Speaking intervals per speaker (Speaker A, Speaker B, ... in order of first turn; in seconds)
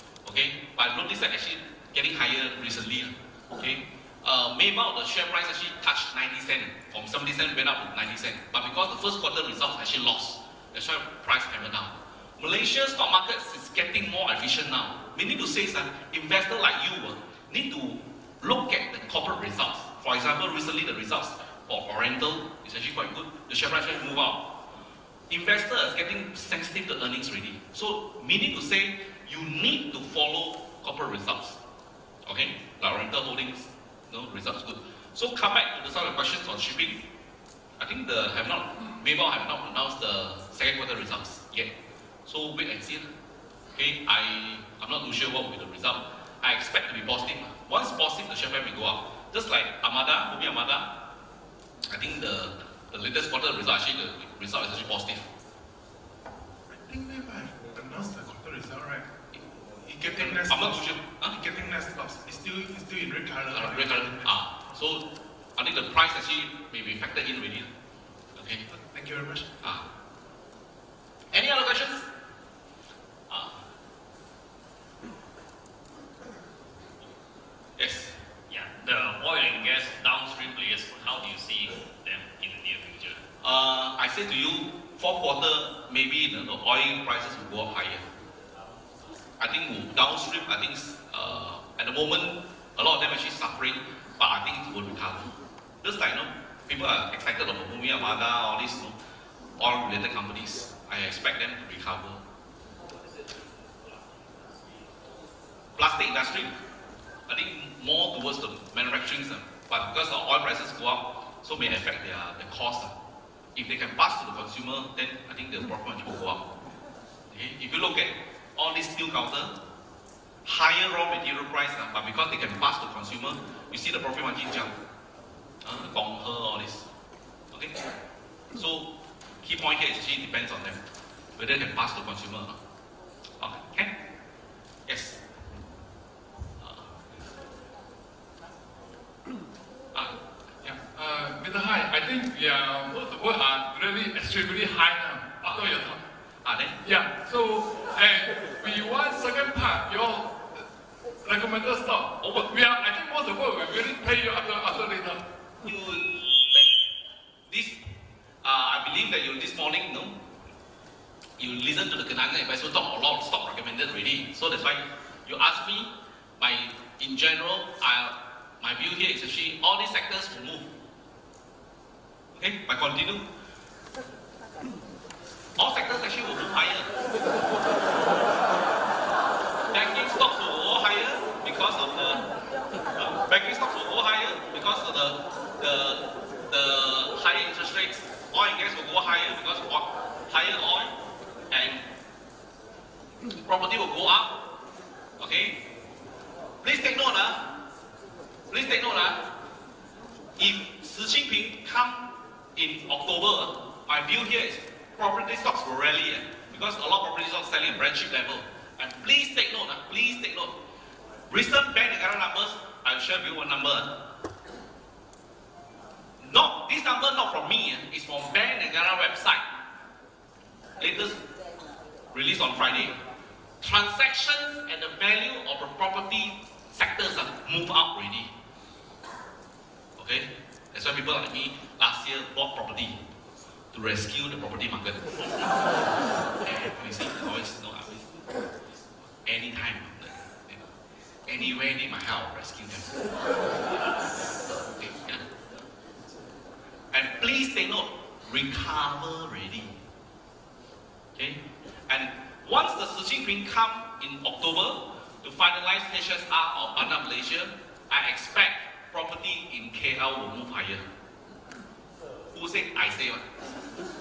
Speaker A: 0.2-24.5, 25.3-31.6, 32.3-37.0, 37.8-41.7, 42.3-43.1, 43.8-50.9, 51.9-55.3, 60.1-61.4, 63.5-67.7, 68.4-68.7, 71.3-72.1, 73.3-73.6, 77.8-78.2, 83.4-88.1, 89.4-99.0, 99.6-102.2, 105.8-106.5, 107.3-113.0, 113.5-116.5, 117.3-119.5, 120.5-124.7, 125.6-126.9, 127.5-127.8, 128.6-130.8, 131.4-132.6, 133.4-133.9, 134.9-135.2, 136.6-136.9, 145.4-145.9, 146.4-146.8, 152.2-152.5, 155.6-156.7, 157.5-157.8, 158.4-160.2, 161.4-170.7, 172.3-173.3, 175.6-176.9, 179.7-182.2, 183.0-190.9, 191.5-191.8, 193.4-194.4, 195.2-195.6, 196.6-197.4, 198.5-199.3, 200.4-210.6, 211.3-213.9, 216.2-219.4, 220.8-221.2, 222.1-223.0, 223.6-228.3, 230.0-233.0, 233.7-235.4, 236.4-238.2, 239.0-240.7, 241.3-243.0, 244.4-245.4, 246.9-249.8, 251.2-260.9, 262.3-263.3
Speaker B: 56.7-59.1, 59.8-64.4, 68.7-69.6
Speaker C: 78.5-83.2, 103.9-104.2
Speaker D: 139.9-146.0, 146.8-150.4, 151.2-155.2